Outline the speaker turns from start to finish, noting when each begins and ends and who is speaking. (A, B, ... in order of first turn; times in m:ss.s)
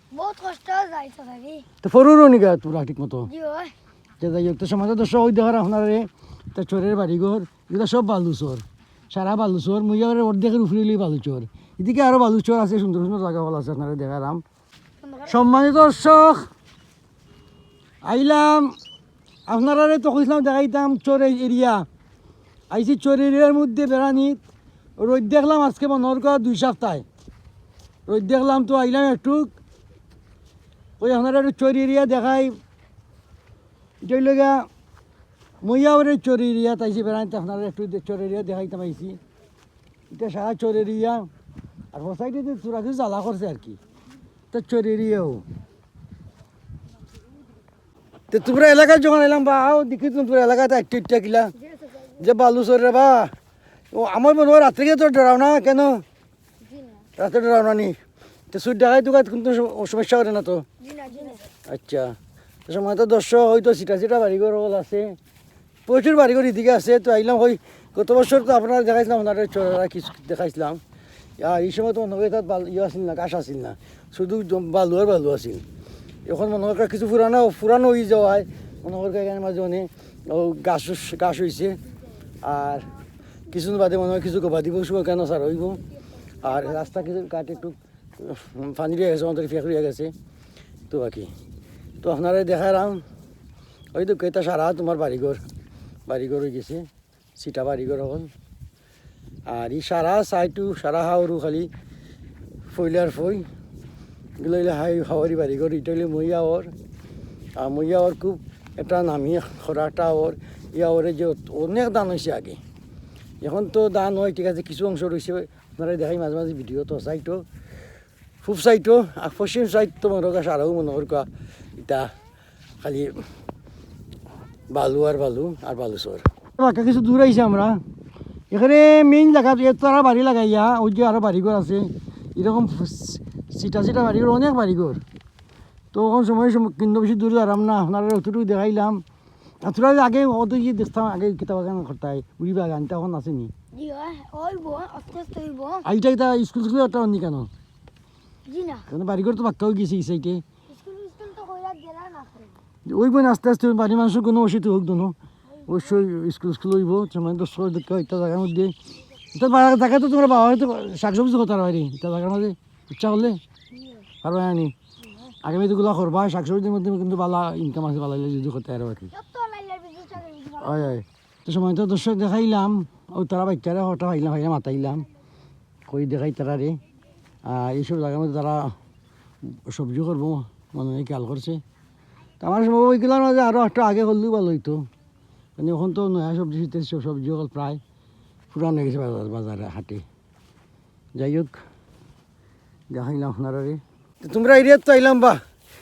0:00.1-0:01.7 A
0:01.8-0:03.3 B
0:03.2-0:03.7 A
0:04.2-0:14.4 B
0:15.0-0:15.5 A
0:15.3-0:16.5 B
0:18.0-0:18.8 B
0:19.5-0:21.8 B
0:22.7-0:24.4 B
0:25.0-0:27.0 B
0:28.1-0:29.5 B
0:31.0-0:32.6 B
0:34.0-0:34.7 B
0:35.6-0:39.2 B
0:40.1-0:41.3 B
0:41.9-0:43.8 B
0:44.5-0:45.4 B
0:48.3-0:51.5 B
0:51.6-0:52.3 A
0:52.2-0:53.3 B
0:53.9-0:56.0 B
0:56.6-0:57.1 A
0:57.2-0:58.0 B
0:58.5-1:00.6 B
1:00.8-1:01.5 A
1:01.6-1:02.2 B
1:02.7-1:05.2 B
1:05.9-1:10.8 B
1:11.4-1:15.6 B
1:16.2-1:21.8 B
1:22.4-1:22.9 B
1:23.5-1:25.8 B
1:26.1-1:27.3 A
1:26.4-1:30.1 B
1:30.9-1:31.3 B
1:32.0-1:33.0 B
1:33.9-1:35.4 B
1:36.1-1:38.3 B
1:39.5-1:41.7 B
1:42.7-1:43.5 B
1:44.4-1:46.7 B
1:47.6-1:52.6 B
1:53.4-1:57.4 B
1:58.4-2:02.1 B
2:02.8-2:03.2 B
2:04.7-2:07.8 B
2:08.5-2:15.0 B
2:15.9-2:19.0 B
2:19.6-2:23.5 B
2:23.7-2:25.9 A
2:25.8-2:27.5 B
2:28.5-2:28.9 A
2:28.9-2:30.4 B
2:30.7-2:32.6 A
2:32.8-2:35.2 B
2:35.5-2:36.0 A
2:35.7-2:38.7 B
2:39.3-2:43.4 B
2:43.7-2:44.0 A
2:44.2-2:44.7 B
2:45.0-2:45.3 A
2:45.4-2:49.1 B
2:49.1-2:50.9 A
2:50.6-2:55.0 B
2:55.9-2:56.8 B
2:57.4-2:58.7 B
2:59.5-3:01.6 B
3:02.4-3:04.9 B
3:05.6-3:07.8 B
3:08.5-3:10.0 B
3:11.1-3:11.6 B
3:12.9-3:15.4 B